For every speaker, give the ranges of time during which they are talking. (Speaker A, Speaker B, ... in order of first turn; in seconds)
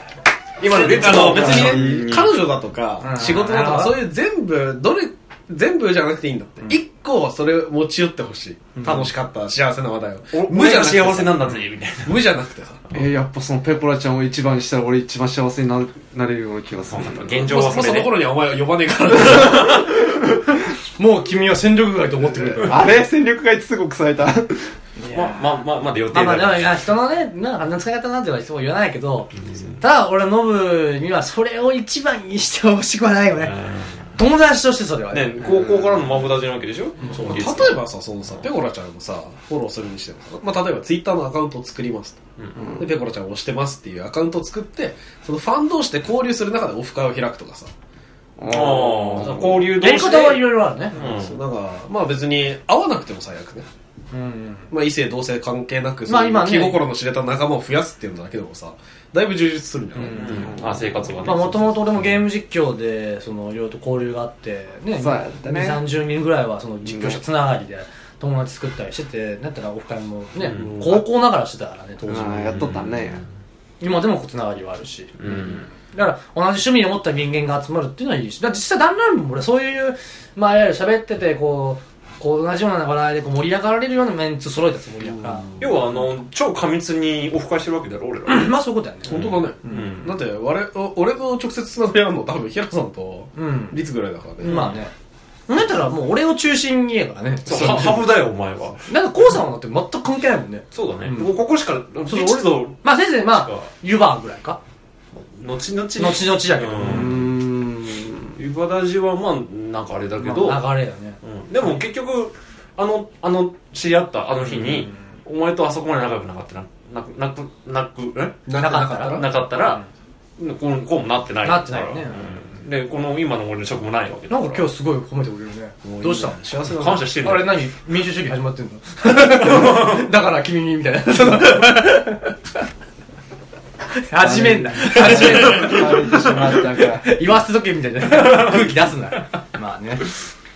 Speaker A: 0.6-2.4, 10.3-12.2, 16.9-18.2, 25.1-26.8, 29.4-29.8, 33.4-34.1, 35.1-37.8, 48.5-51.4, 60.1-62.1, 70.5-70.9, 72.5-73.2, 75.2-75.7, 85.6-88.5, 89.0-90.1, 97.5-98.8, 100.7-103.7, 105.2-107.3, 108.4-110.6, 111.2-119.8, 120.4-124.7, 126.7-127.7, 129.2-130.1, 135.0-135.8
Speaker B: 0.6-1.8, 3.0-4.0, 8.8-9.1, 21.0-22.9, 25.0-25.4, 26.1-33.6, 34.1-35.5, 37.0-37.5, 49.8-51.0, 54.1-54.7, 56.0-56.8, 61.2-72.7, 73.8-85.4, 88.3-90.0, 93.3-93.8, 94.4-94.9, 95.5-98.0, 98.9-101.3, 102.1-104.6, 106.0-108.4, 110.2-111.2, 118.5-119.8, 121.4-122.3, 124.3-126.4, 127.2-132.4, 133.9-140.2
Speaker C: 0.6-12.8, 17.5-20.1, 35.7-35.9, 37.2-42.2, 42.8-47.7, 50.9-53.7, 54.7-61.4, 70.5-70.9, 85.0-86.0, 89.1-94.8, 118.5-119.4, 125.8-127.1
Speaker D: 0.7-2.0, 12.9-17.4, 22.6-24.7, 42.6-42.9, 48.4-49.6, 60.2-60.9, 65.0-65.8, 66.8-67.2, 72.0-73.2, 106.8-107.3, 134.2-137.2